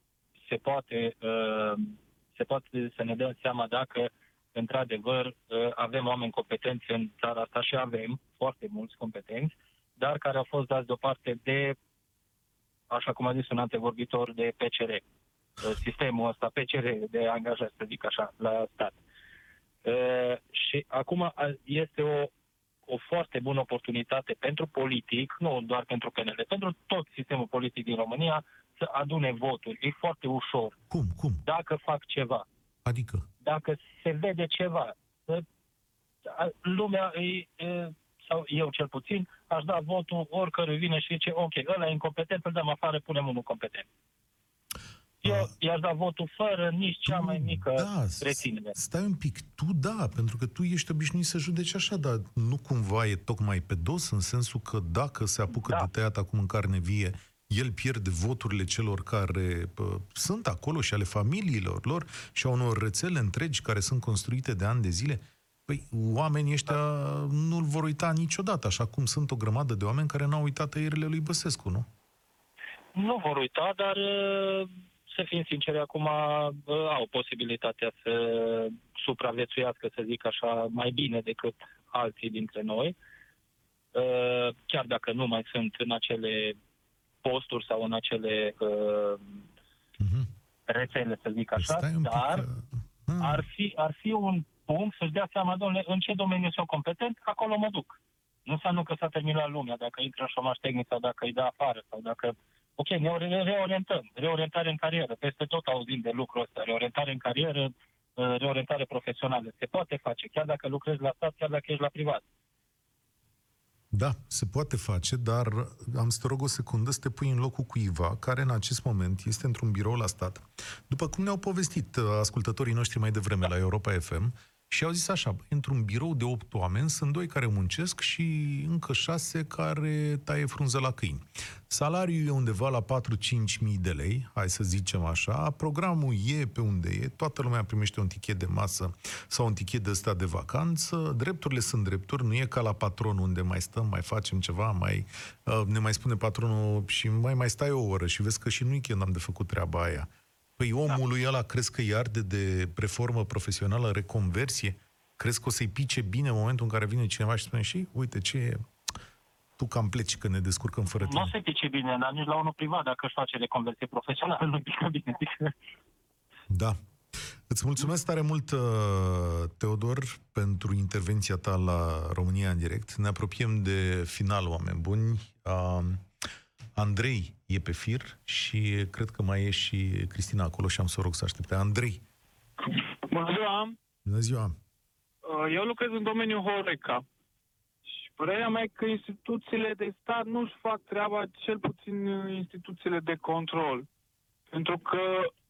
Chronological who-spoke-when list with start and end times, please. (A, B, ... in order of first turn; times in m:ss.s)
0:00.4-0:11.8 A
0:12.9-0:15.0 A
0:15.6-0:19.0 A
0:19.8-0:22.3 A
0:22.9-0:30.8 A
0:30.9-0:31.4 B
0:31.4-0:32.4 A
0:32.8-0:33.2 B
0:33.4-0:35.4 A
0:36.2-0:43.9 A
0:45.2-0:48.7 A
0:45.2-0:45.5 B
0:47.0-1:11.9 B
1:12.9-1:23.0 A
1:23.9-1:26.6 A
1:27.2-1:29.4 A
1:30.0-1:30.3 B
1:30.7-1:32.4 A
1:31.6-1:33.5 B
1:33.2-1:52.2 A
1:53.9-2:38.6 B
2:39.6-2:41.3 B
2:40.9-2:45.5 A
2:46.5-2:46.8 B
2:47.5-2:56.0 B
2:56.8-3:02.0 B
3:03.1-3:03.8 C
3:04.0-3:04.6 B
3:05.2-3:07.0 C
3:07.9-3:13.8 C
3:14.5-3:15.3 C